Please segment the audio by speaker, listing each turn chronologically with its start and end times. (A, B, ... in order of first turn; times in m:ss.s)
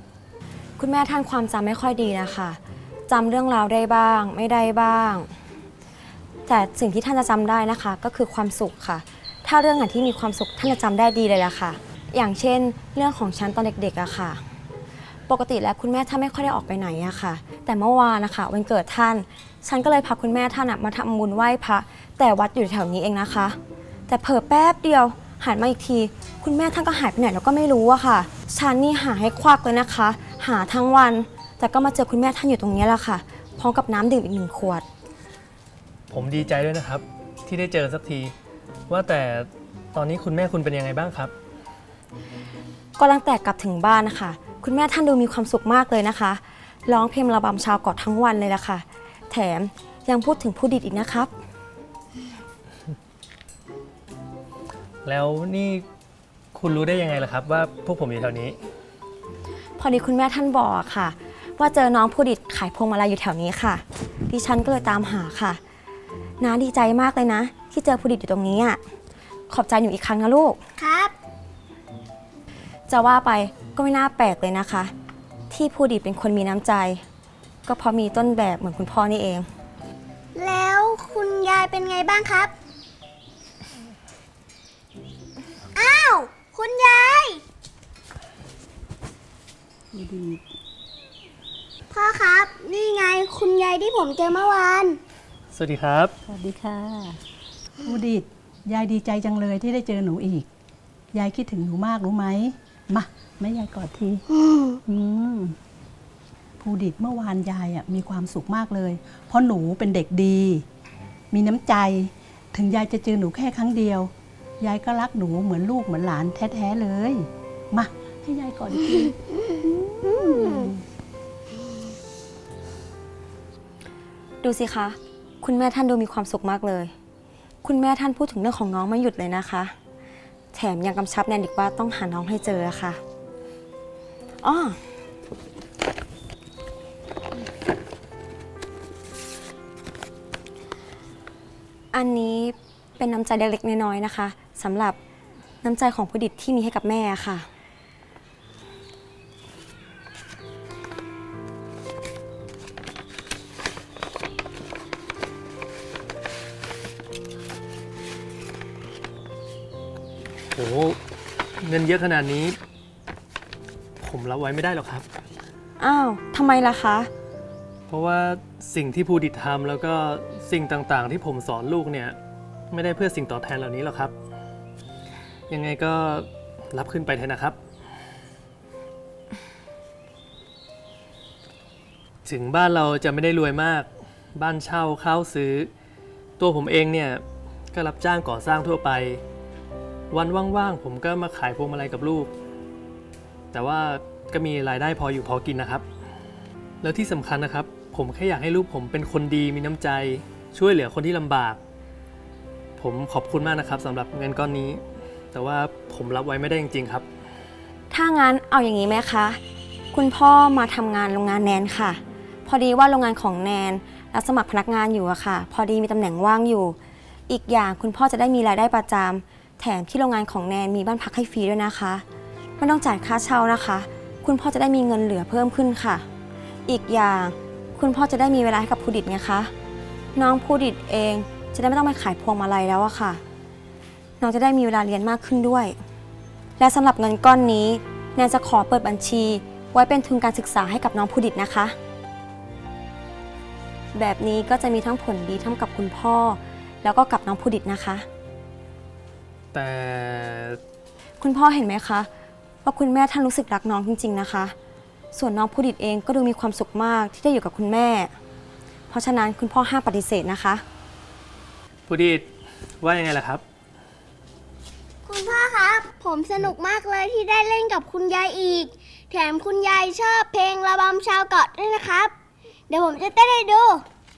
0:00.8-0:05.3 A
0:06.5-0:14.4 A
0:15.3-0:23.6 A
0:24.1-0:34.8 A
0:36.1-0:38.3 B
0:38.9-0:41.3 B
0:43.0-0:51.3 A
0:55.0-0:55.8 B
0:56.5-0:58.6 B
0:59.8-1:05.6 A
1:06.4-1:08.8 A
1:09.5-1:10.6 A
1:10.8-1:11.1 C
1:12.9-1:14.9 A
1:15.5-1:17.0 A
1:17.6-1:19.5 A
1:20.4-1:22.5 C
1:25.8-1:27.4 C
1:29.9-1:30.4 D
1:31.9-1:35.0 C
1:35.5-1:36.1 B
1:36.3-1:37.2 D
1:37.8-1:40.5 D
1:41.1-1:44.2 D
1:44.4-1:44.7 C
1:44.8-1:45.6 D
1:46.6-1:50.6 D
1:51.3-2:00.8 D
2:00.0-2:00.7 C
2:04.4-2:06.9 A
2:07.6-2:09.7 A
2:10.5-2:13.0 A
2:14.4-2:14.8 A
2:21.9-2:25.0 A
2:25.6-2:27.5 A
2:40.5-2:41.0 B
2:41.6-2:42.6 B
2:44.0-2:45.0 B
2:45.8-2:47.1 A
2:47.9-2:52.2 B
2:52.7-2:54.1 B
2:55.5-2:57.6 B
3:02.2-3:05.7 B
3:06.4-3:09.2 B
3:10.1-3:12.3 B
3:13.5-3:15.8 B
3:16.8-3:21.6 B
3:22.8-3:24.8 B
3:25.3-3:27.0 B
3:27.9-3:29.4 A
3:29.9-3:36.8 A
3:37.3-3:42.0 A
3:42.6-3:46.0 A
3:46.7-3:49.5 A
3:50.2-3:53.2 A
3:54.2-3:55.8 A
3:56.6-4:01.8 A
4:03.9-4:08.0 A
4:09.5-4:10.6 B
4:11.2-4:12.1 A
4:12.6-4:14.5 A
4:15.1-4:18.1 A
4:18.9-4:20.6 A
4:21.9-4:22.3 B
4:22.8-4:23.4 B
4:25.0-4:32.1 C
4:32.7-4:33.8 C